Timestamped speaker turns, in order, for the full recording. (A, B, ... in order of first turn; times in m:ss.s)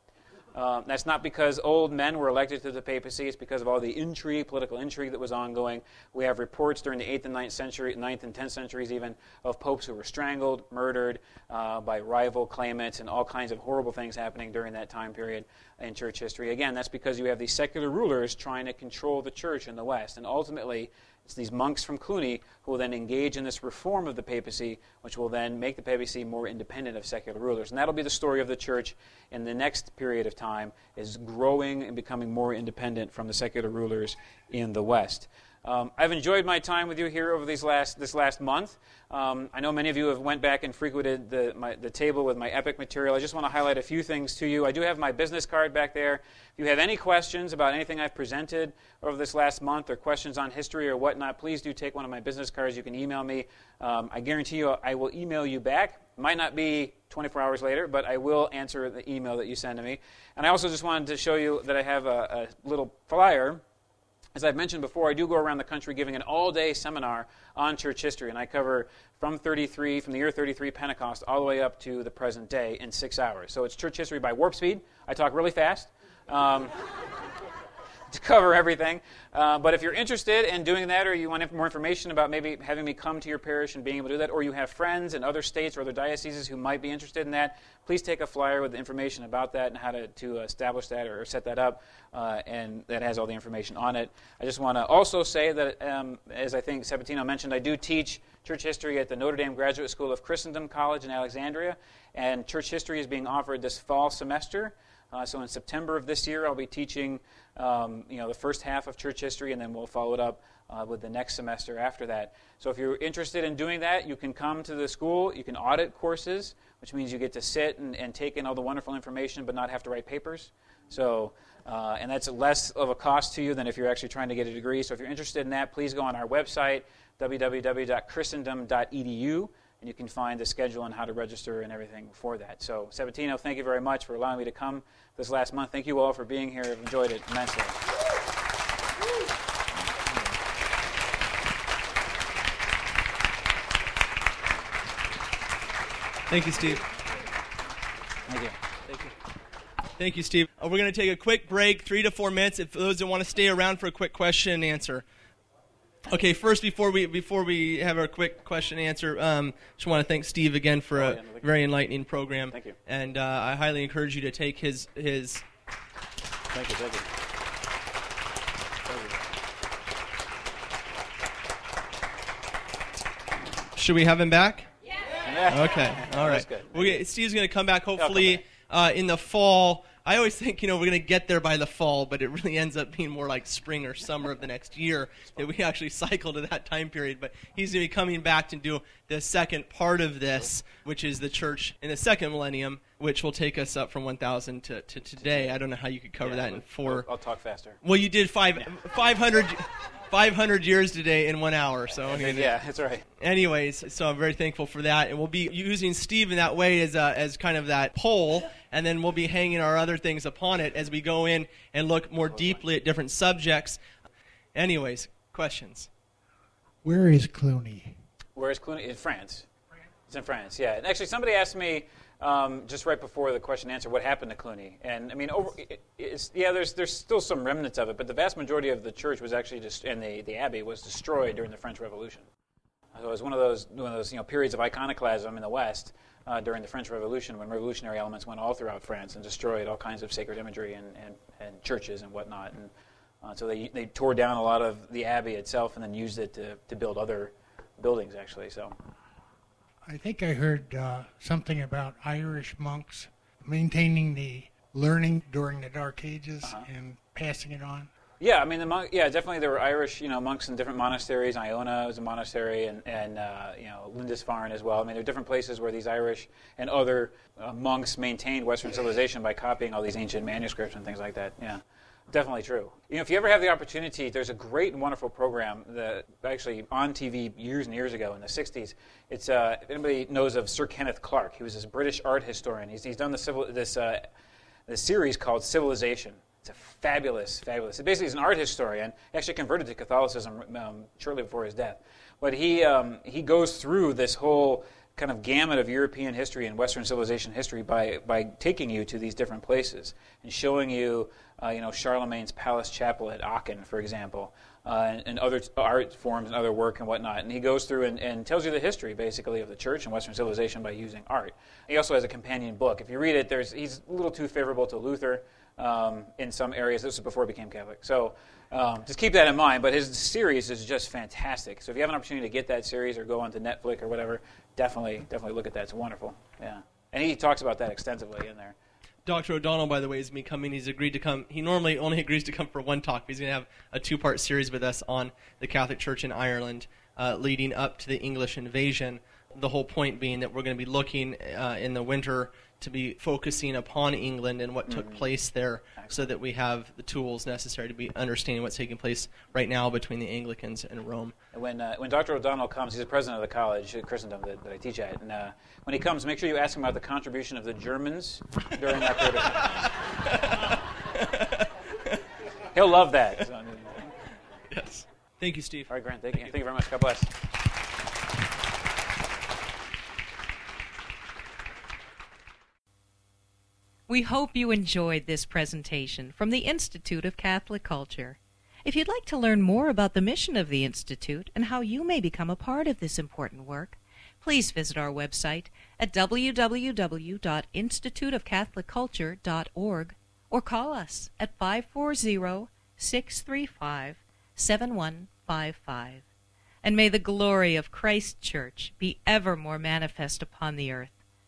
0:00.5-1:03.6 A
1:04.4-1:16.9 A
1:18.1-2:17.8 A
2:26.3-2:26.8 B
2:28.3-2:28.6 A
2:30.0-2:35.0 B
2:36.1-2:45.4 B
2:41.0-2:41.4 A
2:46.5-2:47.1 A
2:53.8-2:54.7 B
2:55.2-2:57.0 A
2:55.5-3:17.1 B
2:58.0-2:58.4 A
3:16.2-3:17.8 A
3:17.8-3:22.5 B
3:22.1-3:23.0 A
3:23.2-3:33.8 B
3:34.6-3:35.9 B
3:36.8-3:38.0 C
3:38.4-3:39.5 A
3:40.1-3:52.2 A
3:52.9-4:02.7 A
4:03.2-4:08.7 A
4:09.9-4:17.9 C
4:18.2-4:44.1 A
4:44.7-5:28.6 A
5:29.1-5:51.2 B
5:44.7-5:45.0 A
5:51.3-5:59.7 A
5:59.2-6:02.0 B
6:02.5-6:03.9 A
6:04.5-6:06.3 B
6:05.7-6:07.1 A
6:13.9-6:36.0 D
6:36.6-6:40.9 D